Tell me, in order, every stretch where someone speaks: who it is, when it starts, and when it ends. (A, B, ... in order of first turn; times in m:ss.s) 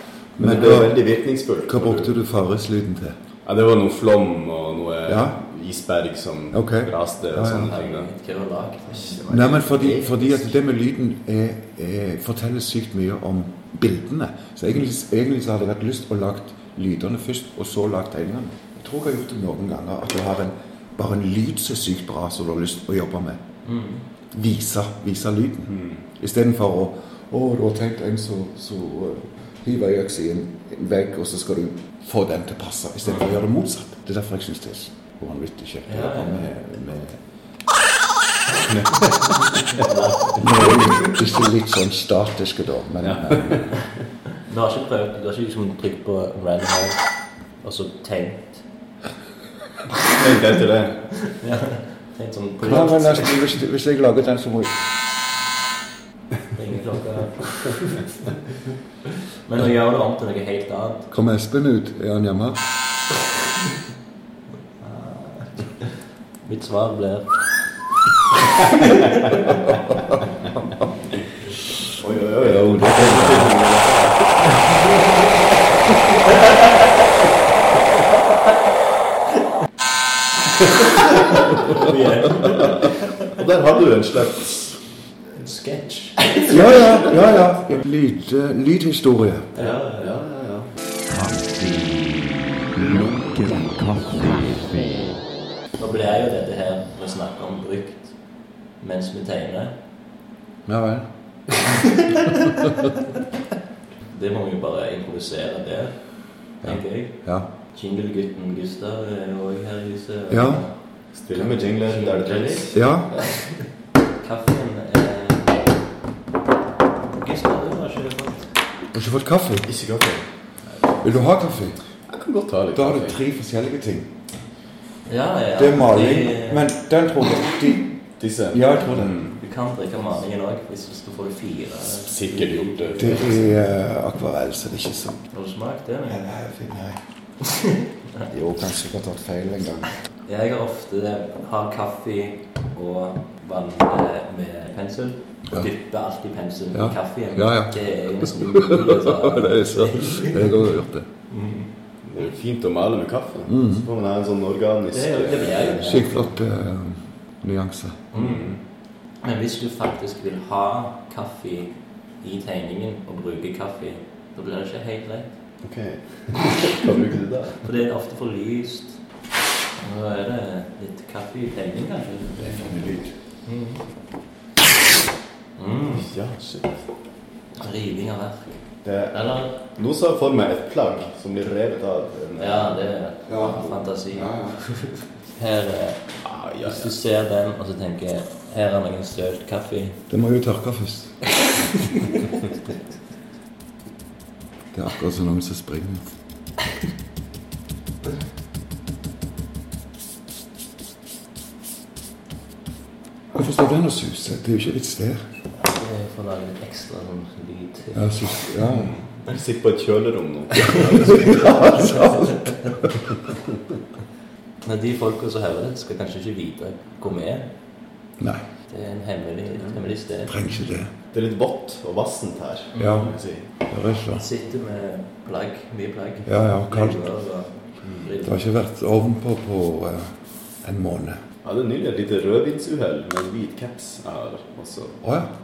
0:00.4-0:02.1 A
0:00.4-0:01.0 B
0:01.7-0:03.2 B
0:03.4-0:08.1 A
0:05.1-0:05.4 B
0:06.5-0:07.7 B
0:07.5-0:09.2 C
0:08.9-0:10.4 A
0:09.3-0:23.4 B
0:23.6-0:24.0 C
0:24.3-0:37.2 B
0:25.7-0:26.0 A
0:35.9-0:36.5 C
0:38.7-0:39.2 A
0:39.7-0:41.1 C
0:40.4-0:43.7 B
0:43.0-0:43.7 A
0:44.4-0:48.6 C
0:50.1-0:51.1 A
0:51.3-0:53.4 C
0:52.6-0:54.9 B
0:56.5-0:58.0 C
0:59.5-1:01.1 C
1:01.1-1:02.7 B
1:04.8-1:07.6 C
1:08.7-1:09.6 C
1:12.0-1:14.6 A
1:12.4-1:13.6 B
1:14.7-1:15.2 C
1:16.3-1:16.9 C
1:20.9-1:23.3 C
1:21.4-1:24.7 A
1:25.4-1:26.8 C
1:26.5-1:29.5 B
1:29.6-1:30.2 C
1:29.6-1:30.7 A
1:31.1-1:35.2 D
1:35.8-1:38.2 C
1:38.8-1:39.8 C
1:40.7-1:41.5 B
1:44.1-1:50.7 C
1:46.6-1:47.5 B
1:50.3-1:50.7 B
1:51.1-1:53.3 A
1:51.3-1:53.2 C
1:52.7-1:53.1 B
1:54.2-1:55.7 C
1:57.1-1:58.5 C
1:58.9-1:59.7 B
1:59.7-2:00.3 A
2:00.7-2:01.0 C
2:01.0-2:01.8 B
2:02.1-2:03.2 A
2:02.7-2:04.2 B
2:05.1-2:06.7 C
2:05.6-2:08.0 B
2:08.2-2:09.4 A
2:08.5-2:09.2 B
2:09.4-2:13.5 C
2:12.0-2:13.4 A
2:13.0-2:15.2 B
2:15.3-2:16.2 C
2:16.1-2:17.0 B
2:17.5-2:18.3 C
2:18.3-2:19.9 B
2:20.3-2:30.7 C
2:26.7-2:31.1 B
2:31.3-2:31.7 C
2:32.0-2:36.1 A
2:33.5-2:33.9 B
2:34.9-2:36.3 C
2:35.8-2:38.0 B
2:38.1-2:38.5 C
2:38.1-2:38.6 A
2:39.2-2:45.3 C
2:45.6-2:47.7 A
2:47.6-2:49.0 C
2:49.8-2:52.7 C
2:52.4-2:53.1 B
2:53.4-2:53.8 C
2:55.6-2:56.1 C
2:56.0-2:56.9 A
2:57.6-2:59.6 C
2:58.8-3:02.8 A
3:02.4-3:06.0 C
3:03.3-3:04.6 B
3:06.2-3:07.0 A
3:06.6-3:10.0 C
3:10.1-3:11.2 B
3:14.7-3:16.1 B
3:23.3-3:25.3 B
3:25.6-3:28.4 C
3:27.9-3:29.0 B
3:28.7-3:31.8 A
3:30.7-3:32.8 C
3:31.2-3:33.0 B
3:34.6-3:37.5 C
3:38.2-3:38.4 B
3:38.7-3:40.4 C
3:40.3-3:40.9 B
3:41.1-3:43.4 A
3:42.8-3:43.1 C
3:42.8-3:43.1 B
3:43.7-3:44.2 B
3:44.2-3:48.5 C
3:46.3-3:47.0 B
3:47.8-3:48.1 A
3:48.2-3:51.2 B
3:51.4-3:55.0 A
3:55.0-3:55.3 B